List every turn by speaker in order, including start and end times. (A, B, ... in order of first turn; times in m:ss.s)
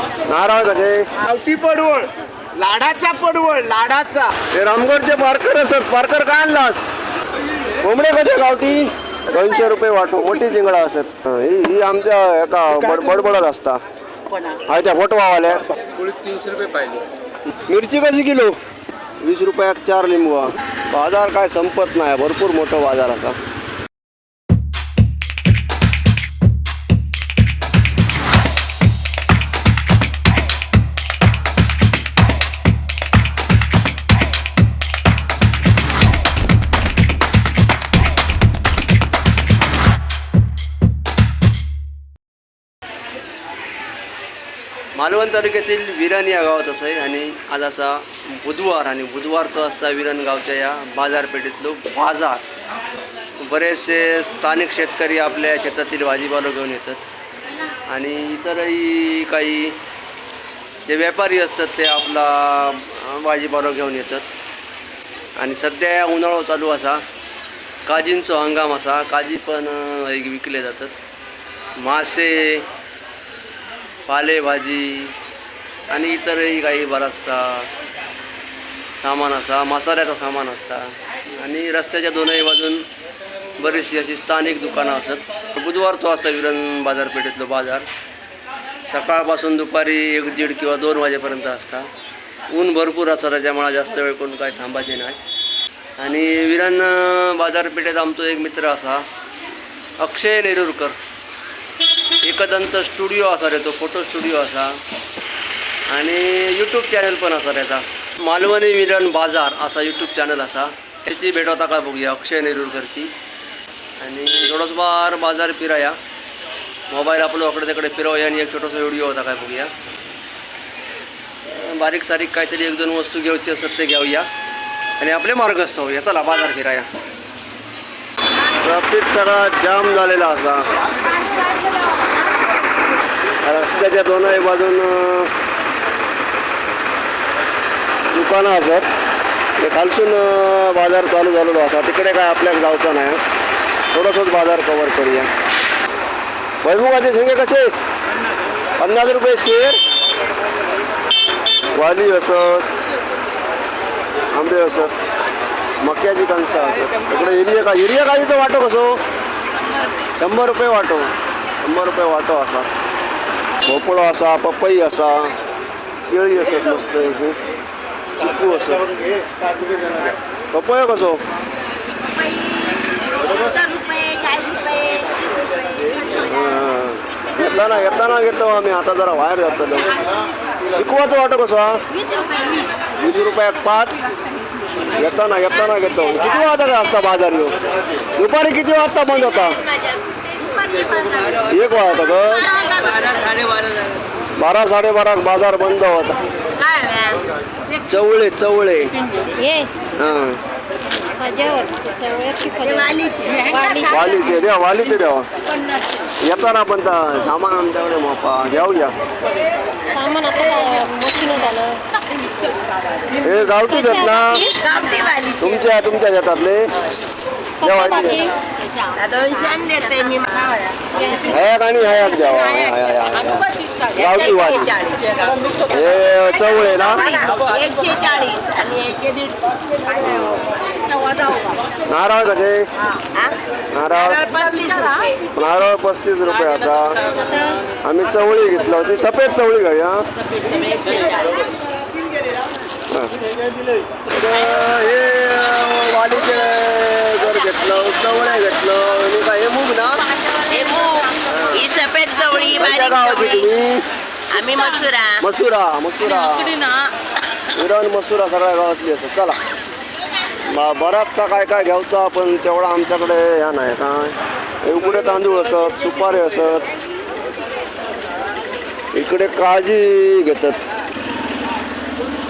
0:00.2-0:01.1 A
0:01.3-0:02.1 B
0:01.4-0:02.1 C
0:02.6-0:04.2 B
0:02.6-0:04.3 C
0:04.5-0:06.9 A
0:07.8-0:13.8 A
0:14.6-0:15.8 A
0:16.0-0:17.0 B
0:17.7-0:18.5 A
0:19.2-0:23.4 A
0:44.9-0:52.4 A
0:53.4-0:57.0 A
0:57.9-0:59.8 A
1:00.9-1:04.3 A
1:05.4-1:07.0 A
1:07.8-1:11.0 A
1:11.8-1:12.7 A
1:14.1-1:15.1 A
1:15.9-1:17.7 A
1:19.0-1:22.8 A
1:23.6-1:27.9 A
1:28.9-1:31.9 A
1:32.5-1:35.2 A
1:36.0-1:39.0 A
1:40.0-1:41.0 A
1:42.2-1:44.8 A
1:45.9-1:53.1 A
1:54.0-1:56.0 A
1:56.9-1:59.7 A
2:01.5-2:04.3 A
2:05.0-2:06.9 A
2:08.6-2:10.6 A
2:13.4-2:15.3 A
2:18.1-2:18.9 A
2:19.6-2:23.2 A
2:23.9-2:25.3 A
2:26.6-2:27.7 A
2:28.8-2:29.8 A
2:31.7-2:32.7 A
2:34.3-2:34.9 A
2:35.8-2:39.0 A
2:40.2-2:42.7 A
2:43.6-2:45.3 A
2:46.1-2:47.4 A
2:48.2-2:48.9 A
2:50.5-2:51.2 A
2:54.7-2:55.0 B
2:56.1-3:00.0 A
3:00.7-3:01.8 A
3:03.0-3:04.0 A
3:04.9-3:07.5 A
3:08.2-3:09.6 A
3:11.3-3:12.6 A
3:14.4-3:16.2 A
3:17.8-3:18.9 A
3:19.4-3:19.7 D
3:20.0-3:20.4 A
3:21.1-3:23.8 D
3:23.8-3:25.3 A
3:26.2-3:29.0 A
3:29.9-3:31.8 D
3:33.2-3:34.5 A
3:35.4-3:36.7 A
3:37.6-3:38.3 A
3:39.2-3:40.2 B
3:41.1-3:44.8 A
3:45.6-3:47.3 A
3:47.6-3:49.3 C
3:50.0-3:50.4 A
3:51.9-3:52.7 A
3:53.7-3:54.4 A
3:54.5-3:55.0 C
3:55.3-4:00.0 A
4:04.1-4:10.1 A
4:10.7-4:11.1 C
4:11.2-4:11.7 A
4:11.8-4:12.3 C
4:12.3-4:13.8 A
4:14.4-4:15.1 C
4:15.2-4:16.6 A
4:17.6-4:19.4 A
4:20.4-4:26.7 A
4:28.9-4:30.6 A